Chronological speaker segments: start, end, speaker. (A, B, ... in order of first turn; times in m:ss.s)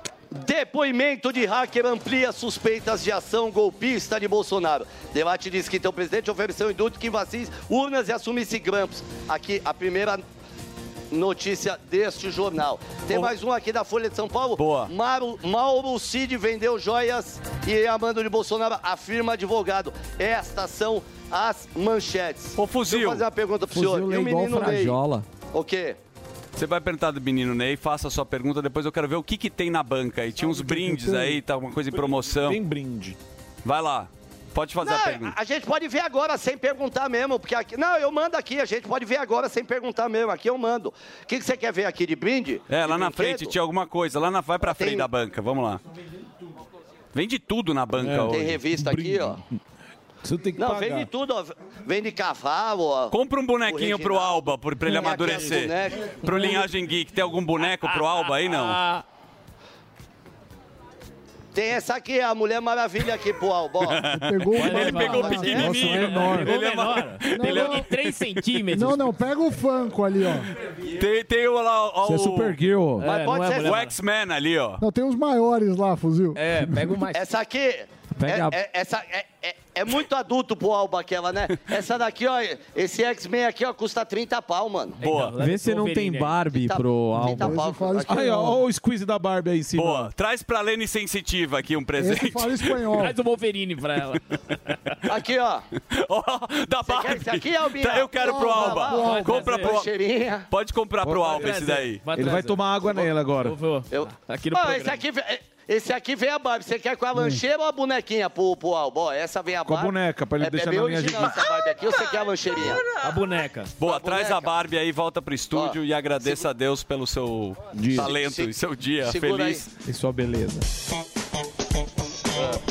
0:00.3-0:10.2 A
0:11.1-0:25.0 A
0:14.6-0:14.9 B
0:22.6-0:23.2 B
0:23.8-0:25.2 C
0:23.8-0:24.7 D
0:25.5-0:26.0 A
0:26.6-0:32.6 B
0:30.5-0:31.4 E
0:32.4-0:33.2 E
0:33.6-0:35.4 B
0:34.8-0:43.5 A
0:42.7-0:45.8 B
0:44.6-0:45.1 A
0:47.1-0:48.6 B
0:48.0-0:49.4 E
0:48.3-0:49.4 A
0:50.2-0:51.1 E
0:50.6-0:53.2 A
0:53.1-0:58.8 B
0:53.7-0:56.6 A
0:57.9-0:59.0 D
1:01.5-1:05.9 A
1:03.8-1:08.3 B
1:04.1-1:06.4 F
1:04.6-1:09.1 D
1:05.6-1:06.5 E
1:07.3-1:07.9 F
1:08.7-1:10.5 F
1:10.9-1:12.6 B
1:12.0-1:13.1 E
1:13.0-1:14.0 D
1:13.0-1:13.8 A
1:13.6-1:14.8 B
1:14.8-1:16.4 F
1:16.4-1:17.2 D
1:17.1-1:25.0 A
1:18.2-1:18.6 C
1:25.0-1:26.4 D
1:25.0-1:25.4 B
1:25.4-1:27.6 C
1:26.5-1:28.3 A
1:27.3-1:28.6 F
1:28.1-1:30.1 E
1:29.8-1:32.8 B
1:32.0-1:33.2 F
1:33.0-1:34.2 D
1:35.1-1:35.6 A
1:35.9-1:39.9 B
1:36.8-1:40.5 A
1:38.2-1:39.6 F
1:38.9-1:39.8 D
1:40.5-1:42.0 B
1:41.0-1:41.6 E
1:41.3-1:45.0 D
1:42.1-1:43.6 E
1:43.9-1:52.8 A
1:47.1-1:47.4 F
1:49.6-1:51.4 E
1:52.9-1:53.7 D
1:53.8-1:59.7 B
1:53.8-1:54.6 A
1:55.5-1:56.5 A
1:57.7-1:58.1 E
1:57.9-1:59.6 A
1:59.9-2:00.6 C